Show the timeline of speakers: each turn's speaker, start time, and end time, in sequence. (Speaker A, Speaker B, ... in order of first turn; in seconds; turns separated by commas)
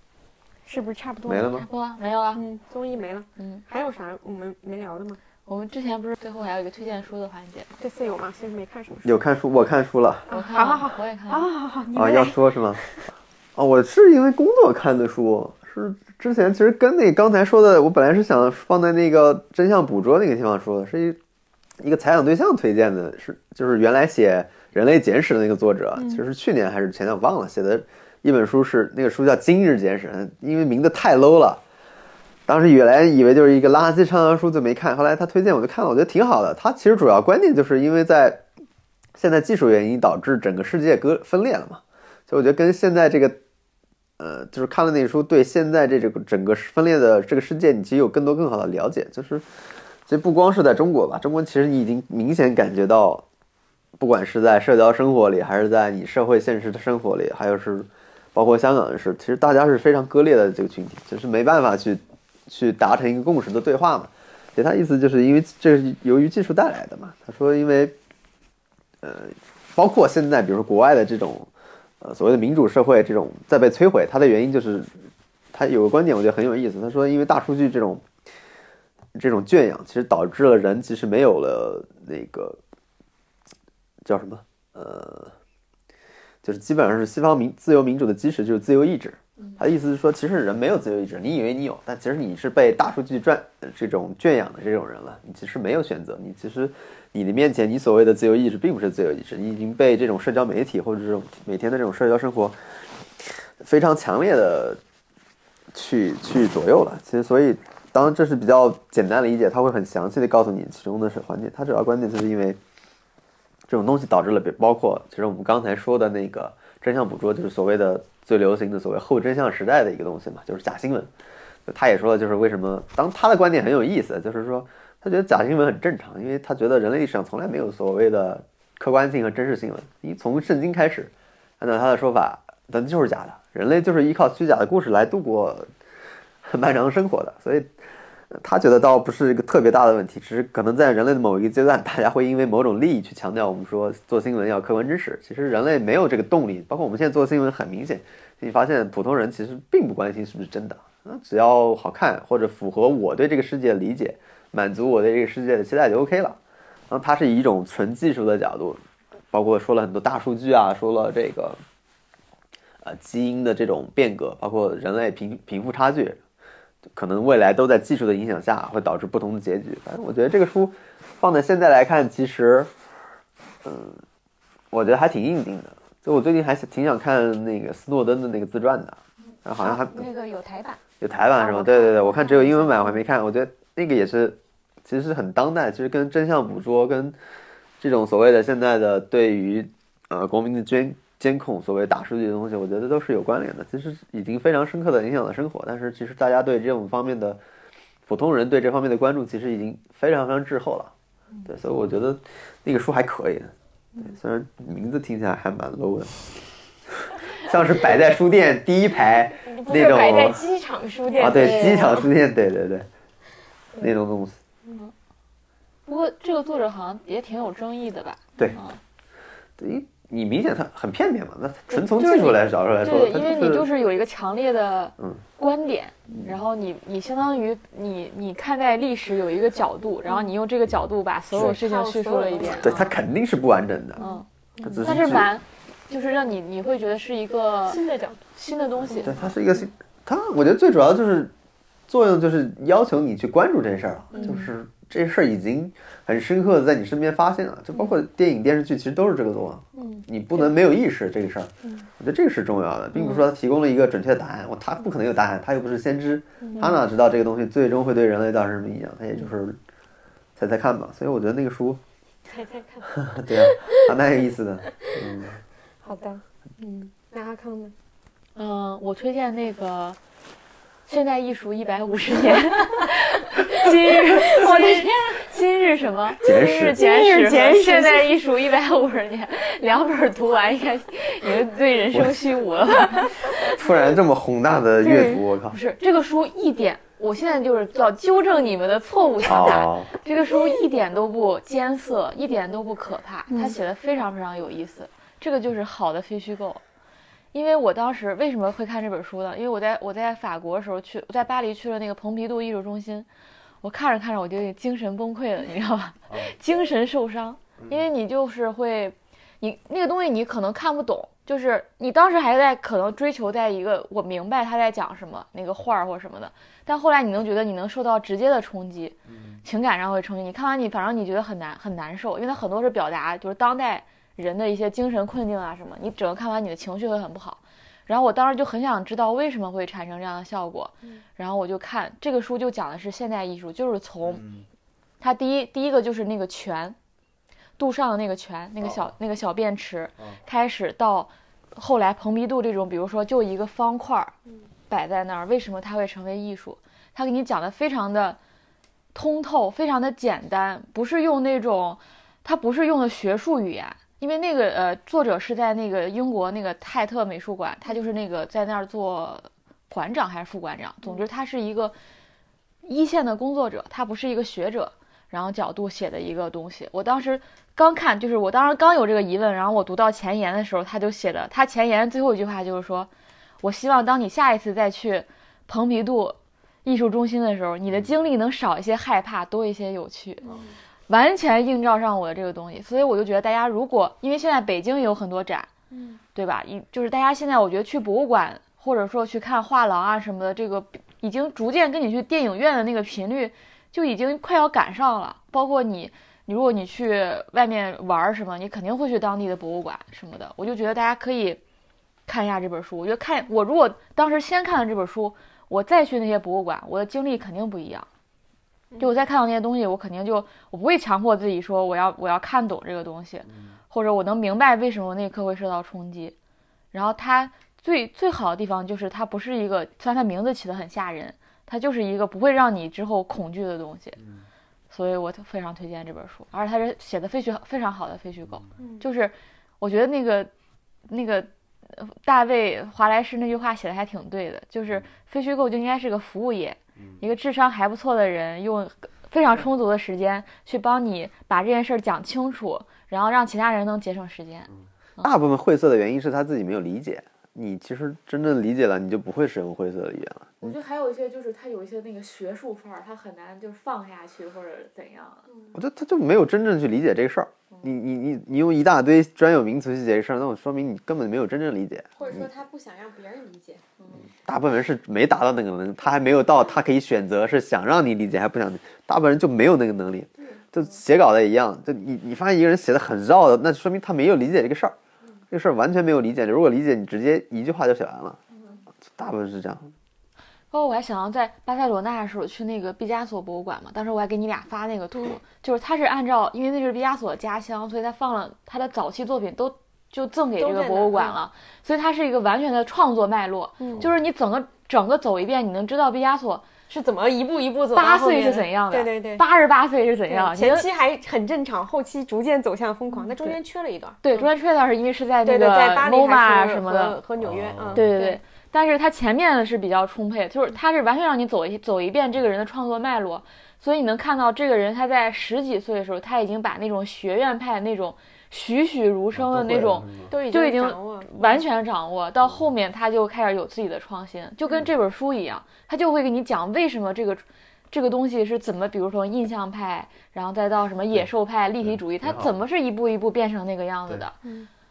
Speaker A: 0.6-1.5, Speaker B: 1.2-1.7, Speaker C: 1.5-2.4, Speaker A: 2.3-5.2, Speaker C: 5.5-7.7, Speaker A: 7.8-9.1, Speaker B: 9.0-10.3, Speaker A: 10.3-12.9, Speaker C: 10.3-11.4, Speaker B: 11.9-12.8, Speaker B: 13.6-21.2, Speaker B: 21.8-31.6, Speaker B: 32.5-38.4, Speaker B: 39.1-43.4, Speaker B: 44.2-49.5, Speaker B: 50.1-53.2, Speaker B: 54.0-67.9, Speaker B: 69.0-74.9, Speaker B: 75.5-78.0, Speaker B: 79.1-82.6, Speaker B: 84.0-85.3, Speaker B: 86.4-102.6, Speaker B: 103.2-104.8, Speaker B: 105.7-112.6, Speaker B: 113.7-121.1, Speaker B: 121.7-135.7, Speaker B: 136.4-137.7, Speaker B: 138.3-156.4, Speaker B: 156.9-158.8, Speaker B: 159.3-161.6, Speaker B: 162.8-166.2, Speaker B: 166.9-172.7, Speaker B: 173.6-174.0, Speaker B: 174.7-180.0, Speaker A: 179.5-180.8, Speaker B: 181.0-187.2, Speaker A: 181.3-183.0, Speaker B: 187.8-197.4, Speaker B: 198.1-200.9, Speaker B: 201.4-206.3, Speaker B: 206.9-210.4, Speaker A: 209.4-212.1, Speaker B: 211.2-212.9, Speaker C: 211.4-211.9, Speaker B: 213.8-214.4, Speaker A: 214.7-214.9, Speaker C: 215.8-218.8, Speaker B: 219.6-223.7, Speaker C: 221.7-232.9, Speaker B: 226.1-226.3, Speaker A: 231.3-232.8, Speaker B: 232.6-234.0, Speaker A: 234.0-234.8, Speaker B: 234.6-235.3, Speaker C: 234.8-239.2, Speaker A: 237.7-238.2, Speaker A: 238.8-239.4, Speaker B: 239.0-241.3, Speaker B: 241.9-259.6, Speaker A: 244.1-244.4, Speaker C: 244.2-244.5, Speaker A: 249.8-250.5, Speaker A: 252.9-253.2, Speaker A: 256.4-256.8, Speaker B: 260.4-261.8, Speaker A: 262.2-263.9, Speaker B: 263.0-265.4, Speaker A: 264.7-265.0, Speaker A: 265.8-267.7, Speaker C: 268.4-270.0, Speaker C: 270.9-283.5, Speaker A: 272.2-272.6, Speaker A: 273.6-275.1, Speaker B: 276.2-276.8, Speaker A: 276.7-278.1, Speaker B: 281.9-282.2, Speaker B: 283.5-285.6, Speaker A: 284.8-285.2, Speaker C: 285.5-296.6, Speaker B: 289.2-289.9, Speaker A: 293.3-293.6, Speaker C: 297.3-303.1, Speaker C: 303.6-334.2, Speaker B: 319.1-319.4, Speaker B: 334.1-334.4, Speaker C: 335.0-336.8, Speaker C: 337.6-344.1, Speaker C: 344.7-348.2, Speaker C: 348.9-361.7, Speaker C: 362.6-372.9, Speaker C: 373.4-380.3, Speaker A: 380.2-380.5, Speaker C: 380.9-385.5, Speaker A: 385.7-386.0, Speaker C: 386.1-401.4, Speaker C: 402.1-407.9, Speaker C: 408.8-416.1, Speaker C: 416.7-424.0, Speaker C: 424.7-430.3, Speaker A: 428.6-428.8, Speaker C: 430.9-445.1, Speaker B: 445.0-450.6, Speaker C: 450.4-455.2, Speaker A: 455.3-455.5, Speaker B: 455.5-462.2, Speaker A: 462.0-463.6, Speaker B: 464.2-474.8, Speaker B: 475.3-478.2, Speaker B: 478.9-479.7, Speaker C: 480.5-496.5, Speaker A: 490.4-491.2, Speaker A: 493.6-493.9, Speaker A: 496.7-499.2, Speaker C: 497.7-500.6, Speaker A: 500.1-504.3, Speaker C: 504.0-507.0, Speaker A: 505.2-508.2, Speaker B: 507.2-507.8, Speaker C: 507.7-534.1, Speaker B: 519.1-520.1, Speaker A: 520.1-521.4, Speaker B: 531.6-532.3, Speaker A: 534.2-534.5